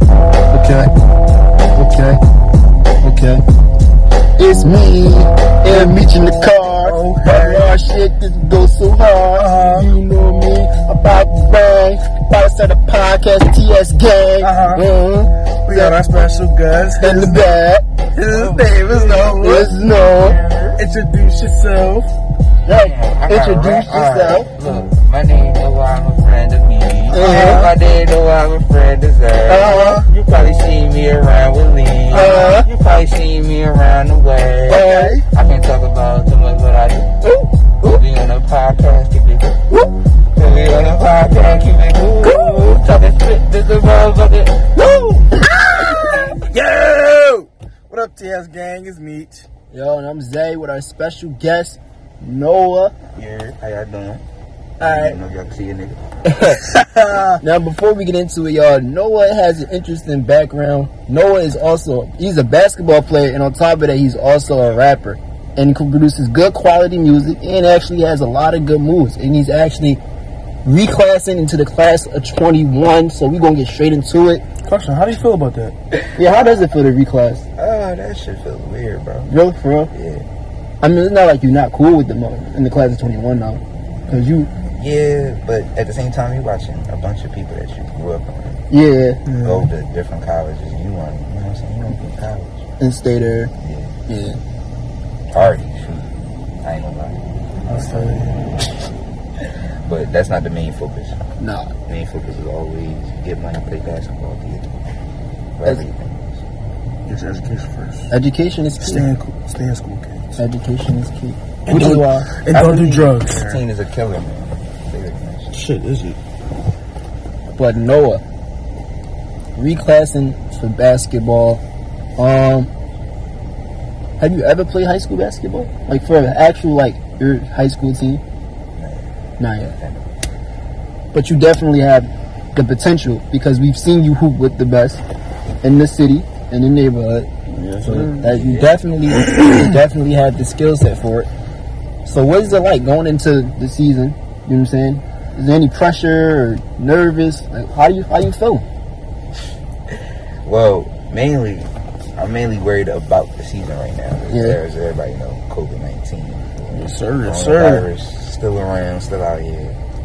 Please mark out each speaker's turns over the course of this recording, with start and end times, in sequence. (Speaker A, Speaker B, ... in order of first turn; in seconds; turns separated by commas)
Speaker A: 0.5-0.9, Speaker A: 1.7-2.2, Speaker A: 3.0-3.4, Speaker A: 4.4-16.0, Speaker B: 5.7-6.1, Speaker B: 6.7-7.7, Speaker B: 9.3-9.9, Speaker B: 14.4-14.8, Speaker B: 15.6-17.4, Speaker A: 17.0-17.8, Speaker B: 18.1-19.7, Speaker C: 18.3-20.8, Speaker A: 19.4-20.4, Speaker B: 20.8-22.1, Speaker A: 22.6-24.5, Speaker C: 22.7-46.4, Speaker A: 27.1-27.7, Speaker B: 27.2-27.5, Speaker A: 29.5-30.0, Speaker B: 29.5-30.1, Speaker A: 32.1-32.7, Speaker A: 34.7-35.1, Speaker B: 34.7-35.2, Speaker B: 45.8-49.5, Speaker A: 49.7-52.9, Speaker C: 53.1-54.2, Speaker C: 54.8-56.0, Speaker A: 54.8-55.2, Speaker A: 56.2-56.6, Speaker B: 56.6-57.4, Speaker A: 57.4-70.0, Speaker A: 70.6-74.4, Speaker B: 74.6-75.7, Speaker A: 76.1-77.4, Speaker C: 77.6-79.3, Speaker A: 79.3-79.9, Speaker C: 79.9-80.2, Speaker A: 80.8-84.5, Speaker C: 84.1-88.7, Speaker A: 88.7-89.2, Speaker B: 89.2-89.7, Speaker C: 89.4-92.7, Speaker A: 92.8-93.5, Speaker C: 93.6-94.0, Speaker A: 94.1-94.4, Speaker C: 95.3-98.2, Speaker B: 97.7-98.5, Speaker C: 99.8-101.2, Speaker A: 101.4-101.7, Speaker C: 101.9-104.8, Speaker C: 105.6-106.4, Speaker B: 107.0-108.1, Speaker A: 108.1-109.1, Speaker B: 108.8-110.4, Speaker A: 110.4-113.1, Speaker B: 111.7-113.6, Speaker C: 113.1-115.6, Speaker B: 115.5-116.2, Speaker A: 117.5-118.2, Speaker A: 119.5-121.6, Speaker A: 122.2-122.7, Speaker A: 124.2-128.2, Speaker C: 128.8-129.1, Speaker A: 129.4-129.8, Speaker C: 129.7-130.2, Speaker A: 131.1-135.0, Speaker A: 135.6-141.3, Speaker B: 137.5-138.4, Speaker C: 138.2-138.7, Speaker A: 142.0-148.6, Speaker C: 150.4-159.8, Speaker A: 154.3-154.6, Speaker B: 156.7-157.9